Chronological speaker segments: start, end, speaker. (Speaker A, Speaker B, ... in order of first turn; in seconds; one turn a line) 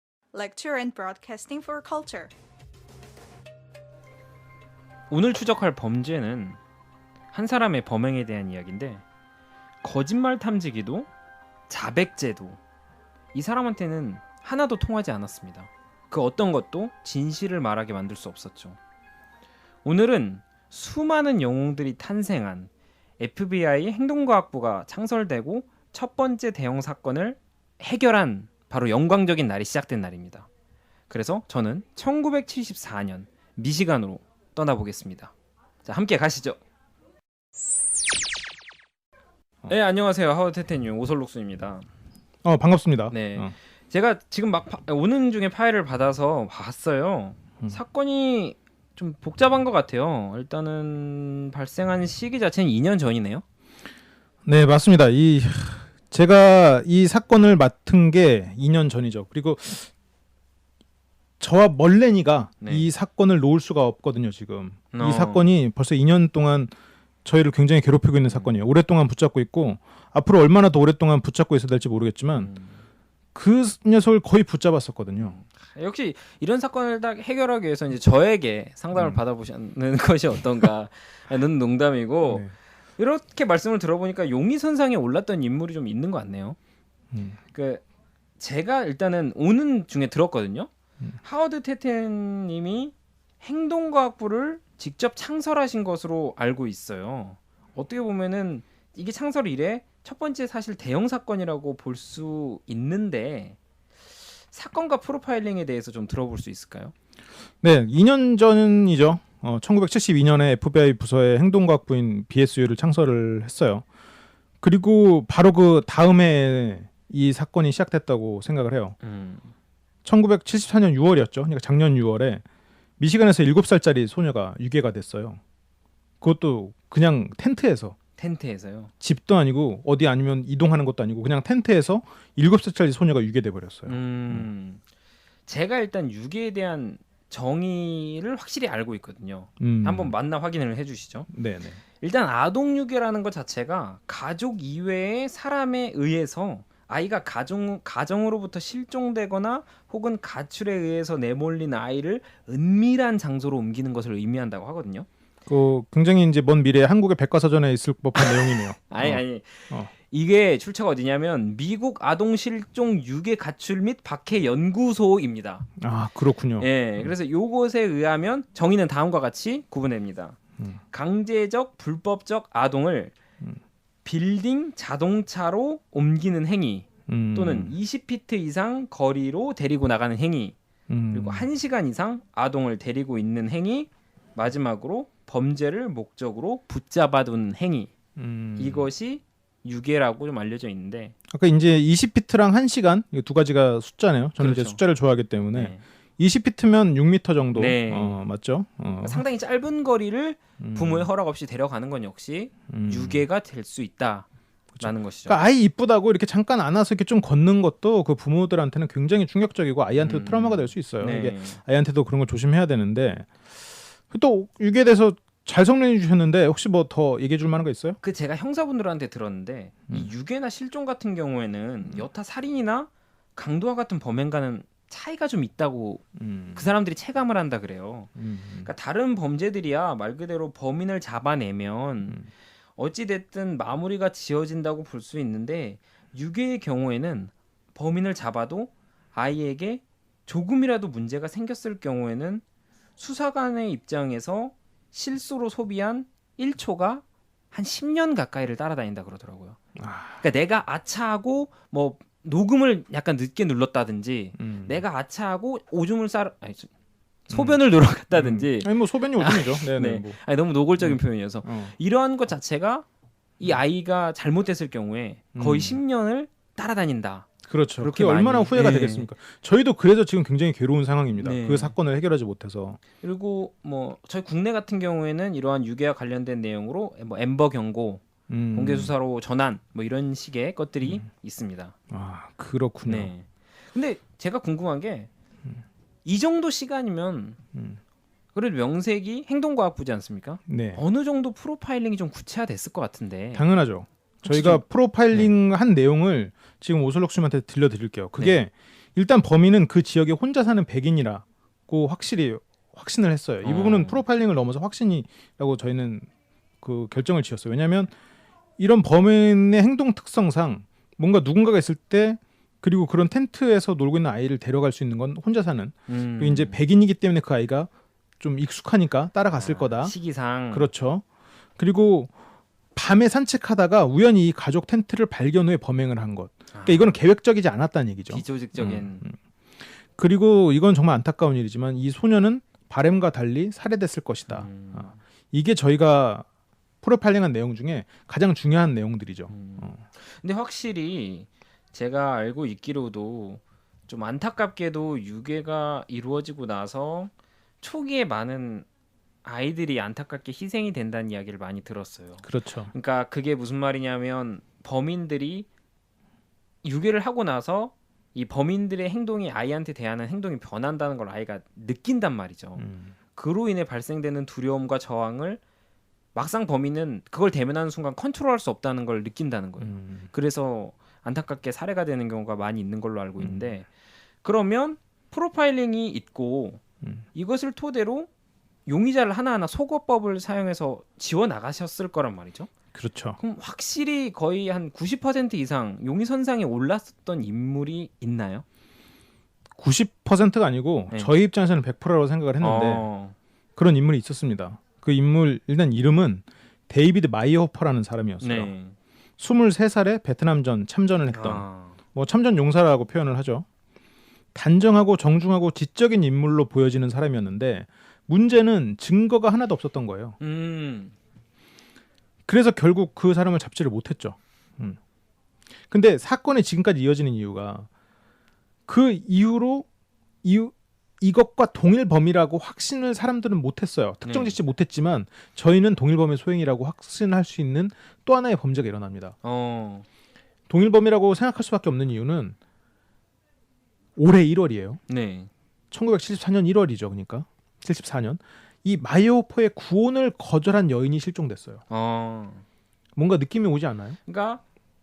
Speaker A: 0.3-2.3
Speaker B: 5.1-6.6
Speaker B: 7.3-9.0
Speaker B: 9.8-11.1
Speaker B: 11.7-12.6
Speaker B: 13.3-18.8
Speaker B: 19.9-30.5
Speaker B: 31.1-35.3
Speaker B: 35.8-36.6
Speaker B: 39.7-41.9
Speaker C: 42.4-43.5
Speaker B: 43.1-53.4
Speaker C: 54.5-59.9
Speaker C: 61.4-66.7
Speaker B: 64.9-65.5
Speaker C: 67.2-72.5
Speaker B: 68.2-68.5
Speaker B: 72.3-72.8
Speaker C: 73.3-75.4
Speaker B: 75.2-86.6
Speaker C: 78.9-79.2
Speaker C: 82.3-82.5
Speaker C: 87.1-87.4
Speaker B: 87.5-87.8
Speaker B: 88.4-90.7
Speaker B: 91.2-103.6
Speaker B: 104.5-106.9
Speaker C: 107.6-113.8
Speaker C: 114.6-119.0
Speaker B: 119.0-119.5
Speaker C: 120.0-122.4
Speaker C: 123.0-125.4
Speaker C: 126.2-128.0
Speaker B: 128.2-128.9
Speaker C: 129.0-134.5
Speaker B: 133.9-134.8
Speaker B: 135.5-141.3
Speaker C: 139.6-140.1
Speaker C: 141.3-141.8
Speaker B: 142.0-155.1
Speaker C: 155.5-159.9
Speaker B: 158.2-165.7
Speaker C: 165.8-167.1
Speaker B: 166.6-170.4
Speaker B: 170.9-173.2
Speaker B: 174.1-180.6
Speaker C: 177.1-177.8
Speaker C: 180.9-181.5
Speaker B: 181.1-187.9
Speaker C: 188.2-188.9
Speaker B: 188.6-191.2
Speaker C: 191.3-199.2
Speaker B: 194.4-194.8
Speaker B: 195.5-195.8
Speaker B: 197.6-198.2
Speaker B: 199.0-204.3
Speaker C: 200.6-201.1
Speaker C: 202.7-203.2
Speaker C: 204.8-213.3
Speaker B: 204.8-205.4
Speaker B: 210.0-211.6
Speaker C: 214.1-218.0
Speaker B: 218.0-228.1
Speaker C: 226.2-226.7
Speaker C: 228.2-228.7
Speaker B: 228.6-232.2
Speaker B: 232.8-242.4
Speaker B: 243.0-249.6
Speaker C: 249.8-250.2
Speaker B: 250.2-256.7
Speaker C: 254.4-254.8
Speaker C: 257.3-257.6
Speaker B: 257.3-262.9
Speaker C: 258.1-260.2
Speaker C: 260.8-261.7
Speaker B: 263.4-269.1
Speaker C: 265.4-265.8
Speaker C: 267.4-272.8
Speaker B: 271.2-271.8
Speaker B: 273.0-281.8
Speaker C: 278.3-278.9
Speaker C: 281.9-283.1
Speaker B: 282.9-285.1
Speaker B: 286.1-287.4
Speaker C: 287.5-287.8
Speaker B: 288.4-293.5
Speaker C: 290.5-290.8
Speaker C: 293.4-306.1
Speaker B: 294.2-295.3
Speaker B: 298.2-298.4
Speaker B: 303.4-304.0
Speaker C: 306.6-307.9
Speaker C: 308.6-317.7
Speaker B: 315.9-316.6
Speaker C: 318.2-319.9
Speaker B: 319.3-320.7
Speaker C: 320.5-321.1
Speaker C: 321.6-322.1
Speaker C: 322.8-329.2
Speaker B: 326.5-327.0
Speaker B: 328.1-329.0
Speaker C: 329.9-336.3
Speaker B: 334.3-335.0
Speaker C: 336.8-339.8
Speaker B: 339.3-348.7
Speaker B: 349.2-355.5
Speaker C: 352.2-352.7
Speaker B: 356.6-365.4
Speaker C: 362.6-362.9
Speaker B: 366.1-373.7
Speaker C: 369.6-370.1
Speaker C: 373.2-373.5
Speaker B: 374.2-376.6
Speaker C: 376.8-377.1
Speaker B: 377.1-378.1
Speaker B: 378.7-382.5
Speaker C: 382.7-383.2
Speaker B: 383.2-388.4
Speaker C: 389.6-392.9
Speaker B: 392.4-393.1
Speaker C: 393.6-398.5
Speaker B: 398.2-398.8
Speaker C: 399.2-403.5
Speaker B: 401.1-401.8
Speaker C: 404.3-410.2
Speaker B: 410.2-410.9
Speaker C: 412.3-414.8
Speaker C: 415.7-417.7
Speaker C: 418.7-419.7
Speaker C: 420.2-429.1
Speaker B: 424.0-424.4
Speaker B: 429.2-429.9
Speaker C: 430.5-432.4
Speaker C: 434.0-434.8
Speaker B: 434.9-435.3
Speaker C: 435.7-441.6
Speaker B: 441.7-442.4
Speaker C: 443.0-444.0
Speaker B: 444.1-444.4